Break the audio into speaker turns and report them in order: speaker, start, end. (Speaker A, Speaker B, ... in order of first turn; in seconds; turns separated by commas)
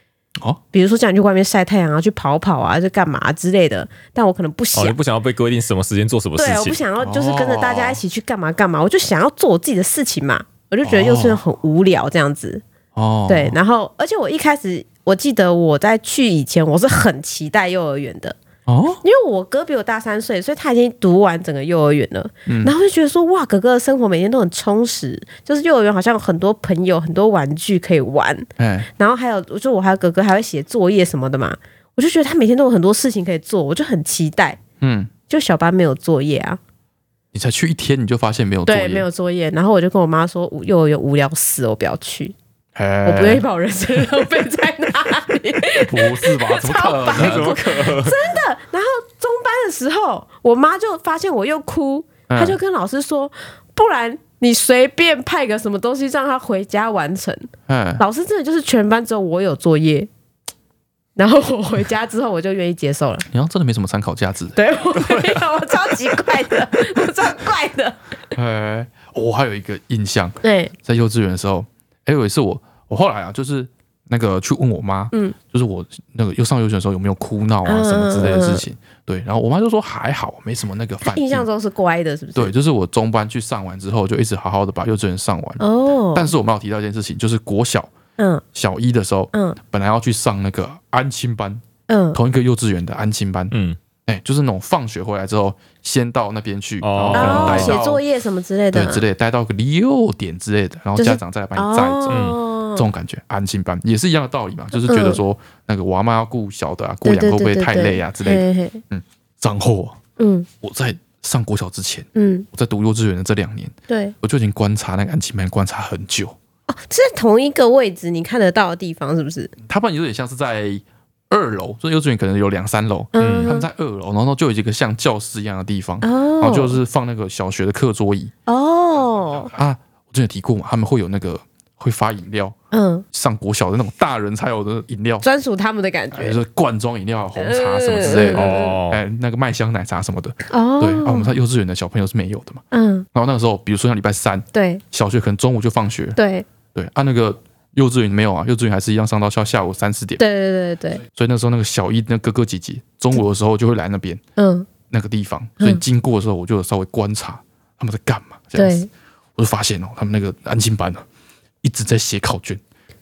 Speaker A: 0.7-5.0, Speaker B: 4.7-6.8, Speaker A: 6.4-12.6, Speaker C: 7.0-8.0, Speaker C: 10.8-11.4, Speaker C: 12.9-13.6, Speaker A: 13.3-18.4, Speaker C: 18.6-19.0, Speaker A: 19.0-34.6, Speaker C: 22.5-22.7, Speaker C: 28.6-28.9, Speaker C: 34.8-35.1, Speaker A: 35.3-36.6, Speaker C: 37.3-39.1, Speaker A: 38.7-42.3, Speaker C: 42.7-43.4, Speaker A: 43.0-60.1, Speaker C: 45.8-47.5, Speaker B: 47.1-48.1, Speaker C: 52.3-52.6, Speaker C: 57.7-58.0, Speaker A: 61.2-63.2, Speaker C: 63.3-64.6, Speaker A: 64.5-68.0, Speaker C: 68.3-81.5, Speaker A: 70.4-70.7, Speaker A: 77.7-78.6, Speaker A: 81.0-82.5, Speaker C: 82.3-85.6, Speaker A: 85.6-86.3, Speaker C: 86.1-87.9, Speaker A: 88.2-88.4, Speaker C: 88.5-91.6, Speaker A: 89.3-89.6, Speaker A: 91.9-92.2, Speaker C: 92.1-93.5, Speaker B: 93.5-93.8, Speaker C: 94.0-98.0, Speaker B: 96.8-97.8, Speaker A: 97.1-99.0, Speaker C: 98.7-110.0, Speaker A: 101.0-102.8, Speaker B: 102.1-102.4, Speaker A: 104.8-105.2, Speaker A: 107.0-108.8, Speaker A: 110.2-110.5, Speaker C: 110.6-116.3, Speaker A: 112.1-112.5, Speaker A: 113.9-114.1, Speaker A: 116.7-119.5, Speaker C: 119.6-128.3, Speaker A: 123.1-123.7, Speaker B: 123.2-123.5, Speaker A: 126.0-126.8, Speaker A: 128.5-129.5, Speaker C: 129.3-132.5, Speaker A: 132.7-133.0, Speaker C: 133.1-135.2, Speaker A: 135.2-136.4, Speaker C: 136.1-142.6, Speaker A: 137.4-138.8, Speaker B: 138.3-139.0, Speaker A: 140.5-141.3, Speaker A: 142.7-143.1, Speaker C: 143.1-146.2, Speaker A: 144.5-144.8, Speaker A: 146.2-146.5, Speaker C: 146.7-150.2, Speaker A: 150.2-151.0, Speaker C: 151.0-154.2, Speaker A: 154.4-154.7, Speaker C: 154.9-158.8, Speaker A: 158.6-158.9, Speaker C: 159.3-161.0, Speaker C: 161.6-162.6